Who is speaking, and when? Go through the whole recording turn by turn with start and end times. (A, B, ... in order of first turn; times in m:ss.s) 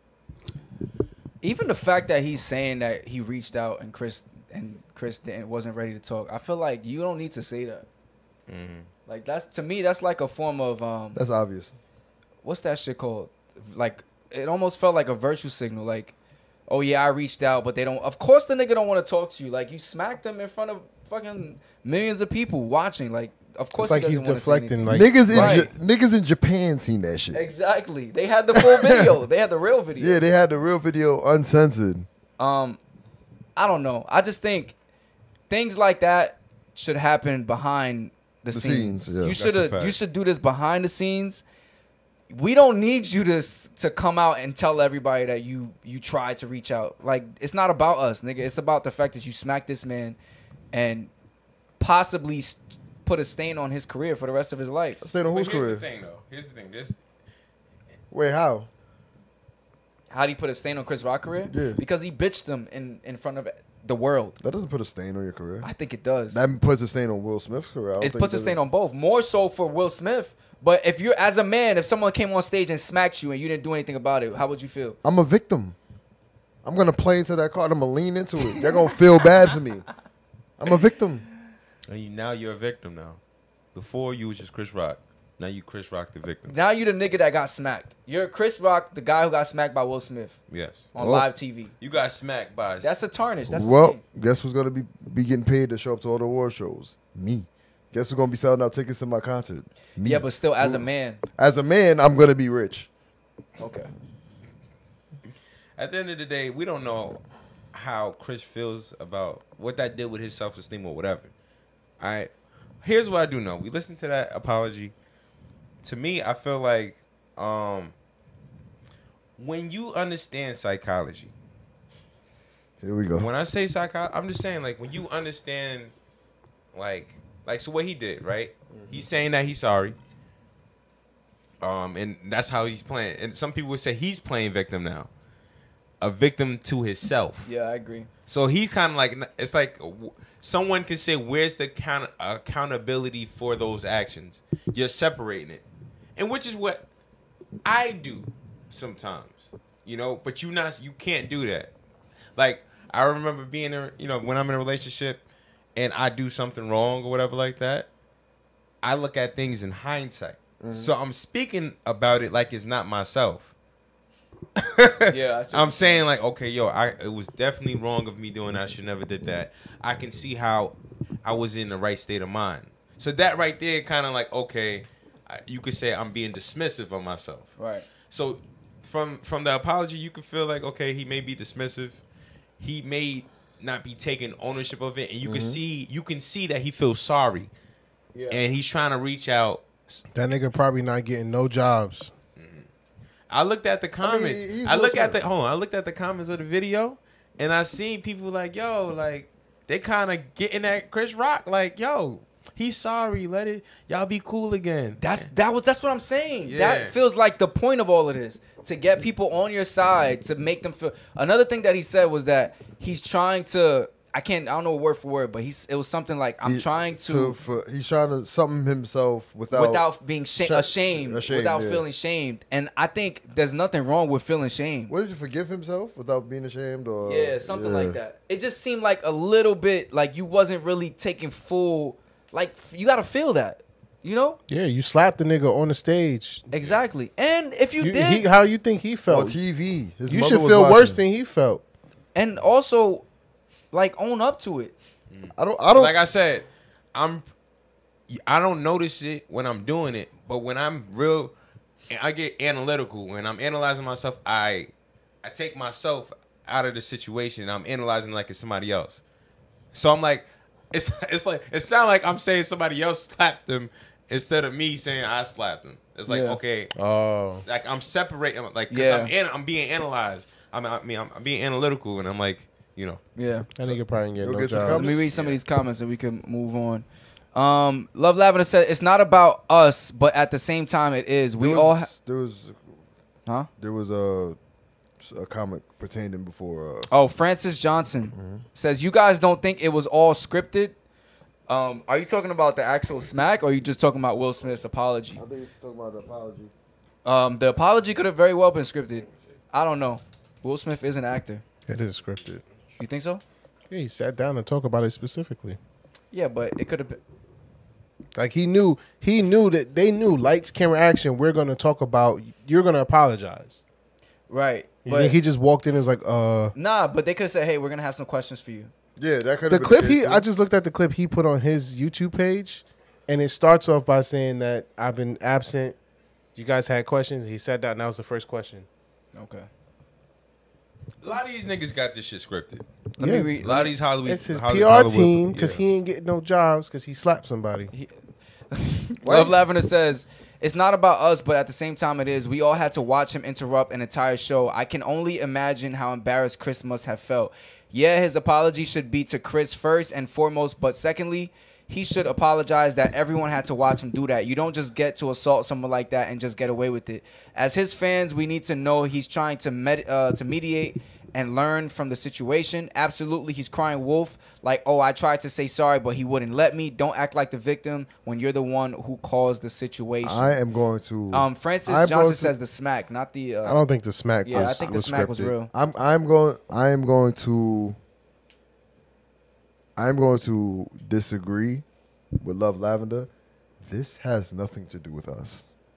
0:01.4-0:07.8 A
0:08.5-0:08.9 B
0:09.0-0:11.2 A
0:11.1-0:11.7 C
0:12.4-0:16.1 A
0:16.7-0:25.7 A
0:23.8-0:25.7 D
0:24.9-0:27.4 C
0:27.3-0:30.2 A
0:28.8-0:29.1 C
0:30.0-0:32.1 C
0:32.4-0:32.8 A
0:33.6-0:34.7 A
0:35.5-0:41.4 A
0:38.5-0:39.4 C
0:39.4-0:40.0 B
0:42.3-0:50.2 A
0:50.7-0:51.1 A
0:51.8-0:55.0 A
0:55.0-0:55.8 C
0:55.3-0:57.0 B
0:58.1-0:58.7 C
1:00.1-1:04.4 A
1:01.5-1:01.8 C
1:04.4-1:05.7 C
1:05.6-1:06.4 A
1:06.3-1:08.6 C
1:08.0-1:15.0 A
1:15.0-1:15.8 C
1:16.6-1:19.8 C
1:20.6-1:21.2 C
1:21.9-1:23.2 B
1:23.7-1:26.6 B
1:26.5-1:31.7 A
1:30.5-1:30.9 B
1:31.0-1:31.3 C
1:31.8-1:33.0 B
1:32.8-1:34.0 A
1:33.5-1:42.9 C
1:40.0-1:41.2 A
1:43.6-1:43.9 A
1:45.8-1:47.2 B
1:47.7-1:51.3 B
1:52.0-1:54.9 B
1:55.8-1:57.9 B
1:59.4-2:01.3 B
2:02.8-2:03.3 C
2:03.2-2:05.9 B
2:06.7-2:10.0 B
2:11.6-2:15.1 B
2:16.0-2:17.5 B
2:17.4-2:18.1 A
2:18.3-2:25.6 B
2:26.2-2:26.8 B
2:27.6-2:31.7 B
2:32.4-2:35.2 B
2:35.8-2:37.9 B
2:38.8-2:43.5 B
2:40.6-2:40.9 C
2:44.6-2:57.5 B
2:45.1-2:46.0 A
2:57.6-2:57.9 A
2:58.1-3:02.0 B
3:02.6-3:07.5 B
3:05.2-3:05.6 C
3:08.1-3:08.4 A
3:08.3-3:10.0 B
3:10.1-3:12.1 D
3:12.4-3:12.7 B
3:13.3-3:25.3 B
3:14.0-3:15.2 C
3:25.0-3:37.4 A
3:26.4-3:26.9 B
3:36.4-3:39.8 C
3:39.5-3:44.9 A
3:40.4-3:41.8 C
3:44.9-3:48.0 C
3:47.0-3:54.4 A
3:54.5-3:56.5 D
3:56.5-3:58.2 A
3:57.8-3:59.4 D
3:59.1-4:01.0 C
4:00.0-4:01.6 D
4:02.1-4:03.0 A
4:03.7-4:04.7 A
4:05.1-4:07.3 B
4:05.4-4:06.0 C
4:08.1-4:11.3 B
4:11.9-4:19.0 B
4:19.7-4:26.7 B
4:26.1-4:26.4 A
4:26.8-4:27.4 D
4:27.4-4:33.0 B
4:28.7-4:29.1 A
4:33.2-4:33.5 A
4:33.5-4:35.0 D
4:34.2-4:35.0 C
4:34.7-4:41.9 A
4:35.0-4:35.4 B
4:41.4-4:42.7 C
4:43.6-4:44.4 C
4:45.0-4:46.9 C
4:46.9-4:50.8 A
4:48.1-4:48.4 C
4:51.5-4:55.2 A
4:55.2-4:56.5 C
4:57.0-5:01.4 A
5:01.7-5:02.4 D
5:02.8-5:03.2 A
5:03.7-5:05.6 D
5:06.1-5:07.0 A
5:08.2-5:13.6 D
5:14.3-5:15.2 A
5:14.8-5:16.5 D
5:16.5-5:18.7 A
5:19.0-5:20.2 C
5:19.5-5:25.8 D
5:26.3-5:28.7 D
5:29.1-5:29.5 A
5:31.0-5:32.6 B
5:33.0-5:33.5 D
5:33.0-5:33.7 A
5:33.4-5:35.6 B
5:34.0-5:37.7 D
5:37.7-6:10.4 A
5:39.0-5:39.5 C
6:10.0-6:12.3 C
6:11.1-6:13.6 A
6:13.4-6:15.3 D
6:14.2-6:15.5 A
6:14.3-6:14.6 C
6:15.5-6:17.8 C
6:19.8-6:21.6 C
6:22.2-6:23.1 C
6:23.6-6:25.5 C